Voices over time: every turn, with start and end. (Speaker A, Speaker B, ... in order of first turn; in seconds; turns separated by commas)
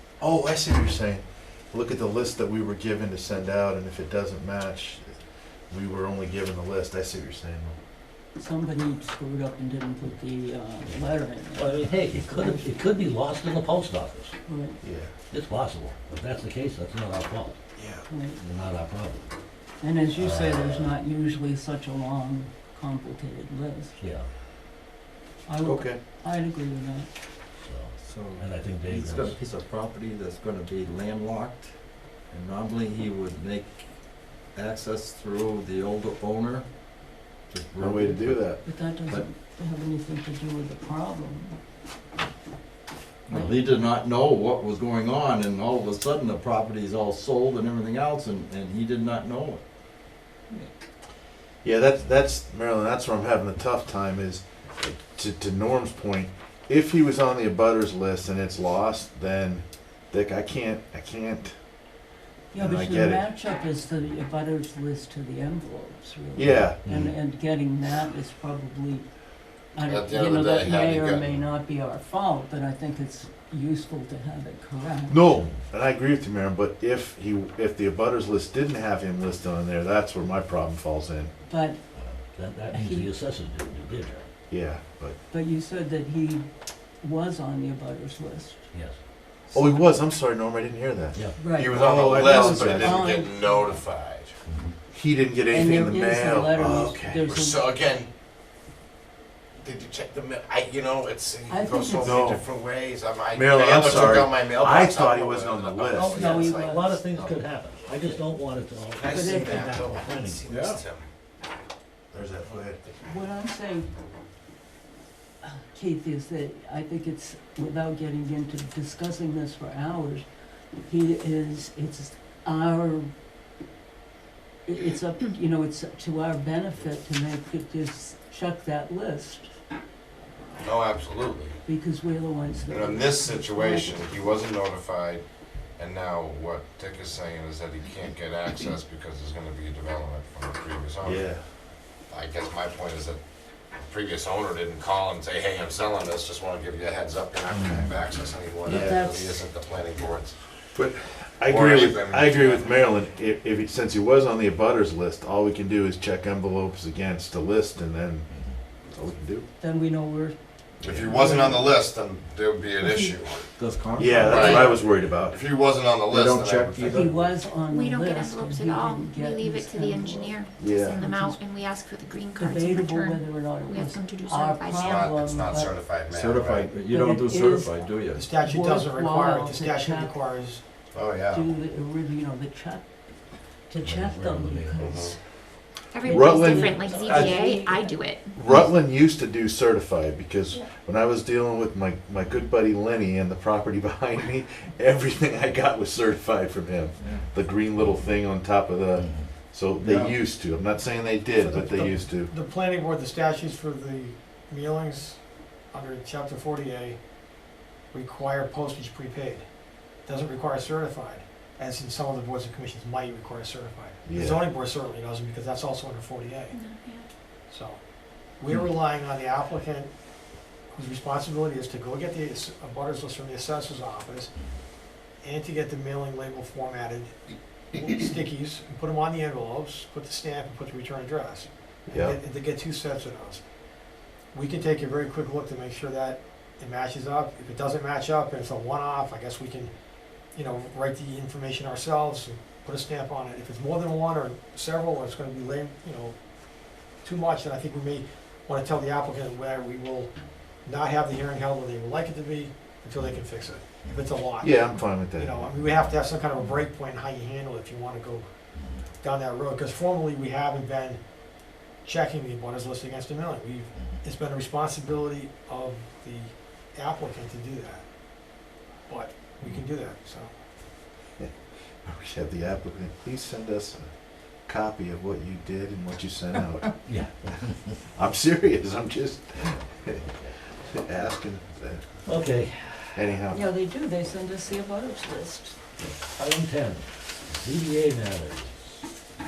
Speaker A: 0.2-5.1, Speaker A: 5.7-7.8, Speaker B: 8.4-12.7, Speaker C: 11.6-14.4, Speaker B: 14.5-14.8, Speaker A: 14.8-15.1, Speaker C: 15.3-17.6, Speaker B: 18.1-18.4, Speaker C: 18.4-19.3, Speaker B: 19.8-24.0, Speaker C: 20.1-20.9, Speaker C: 24.0-24.3, Speaker B: 25.4-27.1, Speaker A: 25.6-26.0, Speaker C: 27.6-29.4, Speaker D: 28.0-31.7, Speaker D: 32.3-33.9, Speaker D: 34.5-36.7, Speaker D: 37.5-39.3, Speaker A: 37.8-38.6, Speaker B: 38.6-41.6, Speaker D: 43.3-49.6, Speaker B: 43.3-43.6, Speaker A: 51.6-61.5, Speaker B: 62.5-69.1, Speaker A: 62.5-63.2, Speaker A: 66.4-67.1, Speaker C: 66.8-67.1, Speaker B: 69.8-75.3, Speaker E: 69.8-71.4, Speaker A: 75.1-81.3, Speaker B: 81.5-81.8, Speaker C: 82.0-84.3, Speaker B: 82.7-83.1, Speaker A: 84.5-85.2, Speaker B: 85.3-86.5, Speaker B: 87.0-88.7, Speaker C: 88.7-89.0, Speaker B: 89.5-89.9, Speaker A: 89.5-93.0, Speaker B: 91.4-91.8, Speaker E: 91.5-94.4, Speaker B: 92.3-93.8, Speaker C: 94.5-94.8, Speaker A: 94.9-97.0, Speaker B: 95.5-97.7, Speaker E: 96.7-98.1, Speaker E: 99.6-108.2, Speaker B: 101.5-102.2, Speaker A: 102.0-102.5, Speaker A: 103.3-106.2, Speaker C: 105.9-110.4, Speaker B: 106.1-106.8, Speaker E: 109.0-111.1, Speaker B: 109.1-109.8, Speaker D: 110.5-110.8, Speaker A: 112.1-112.8, Speaker E: 112.7-113.1, Speaker B: 113.0-113.9, Speaker B: 115.4-120.2, Speaker B: 120.8-123.1, Speaker B: 124.7-129.5, Speaker E: 130.6-131.6, Speaker B: 131.7-134.1, Speaker E: 132.7-135.2, Speaker E: 135.8-141.3, Speaker A: 141.0-141.4, Speaker E: 142.1-143.2, Speaker E: 143.8-150.4, Speaker A: 147.6-147.9, Speaker A: 148.7-149.0, Speaker B: 148.7-149.4, Speaker A: 150.7-159.5, Speaker E: 151.5-152.8, Speaker C: 158.3-158.6, Speaker B: 159.6-160.4, Speaker E: 160.8-163.5, Speaker B: 161.1-161.7, Speaker B: 162.8-163.2, Speaker D: 163.6-164.8, Speaker A: 164.0-165.4, Speaker E: 164.2-167.2, Speaker B: 164.4-164.7, Speaker D: 166.1-167.4, Speaker B: 166.9-170.4, Speaker F: 167.7-175.1, Speaker A: 170.6-171.0, Speaker B: 171.0-171.4, Speaker B: 172.4-175.7, Speaker E: 174.8-176.8, Speaker D: 176.1-178.3, Speaker B: 176.8-180.2, Speaker G: 178.1-180.6, Speaker E: 180.9-181.5, Speaker B: 181.2-182.9, Speaker B: 183.7-185.2, Speaker C: 183.8-185.0, Speaker E: 184.8-185.2, Speaker F: 185.9-188.3, Speaker B: 186.0-188.0, Speaker A: 186.1-187.4, Speaker A: 188.3-202.3, Speaker D: 197.0-197.3, Speaker C: 199.0-199.3, Speaker D: 199.8-200.2, Speaker G: 201.4-205.2, Speaker G: 205.7-207.0, Speaker G: 207.9-209.4, Speaker G: 210.1-216.6, Speaker A: 214.1-214.5, Speaker F: 216.5-217.1, Speaker G: 217.5-217.8, Speaker G: 218.4-219.9, Speaker G: 220.8-224.3, Speaker G: 225.2-227.2, Speaker G: 227.7-233.4, Speaker A: 231.9-232.2, Speaker G: 234.3-239.7, Speaker G: 240.3-246.2, Speaker G: 247.0-250.1, Speaker G: 250.7-258.3, Speaker A: 254.4-255.6, Speaker C: 258.6-258.8, Speaker G: 259.0-261.0, Speaker G: 261.8-267.9, Speaker G: 268.9-270.3, Speaker A: 271.8-273.9, Speaker A: 274.5-277.4, Speaker C: 276.9-277.1, Speaker A: 277.9-280.0, Speaker C: 279.9-280.4, Speaker A: 280.6-281.8, Speaker C: 282.1-283.0, Speaker A: 282.9-283.5, Speaker B: 283.3-285.6, Speaker C: 286.1-288.7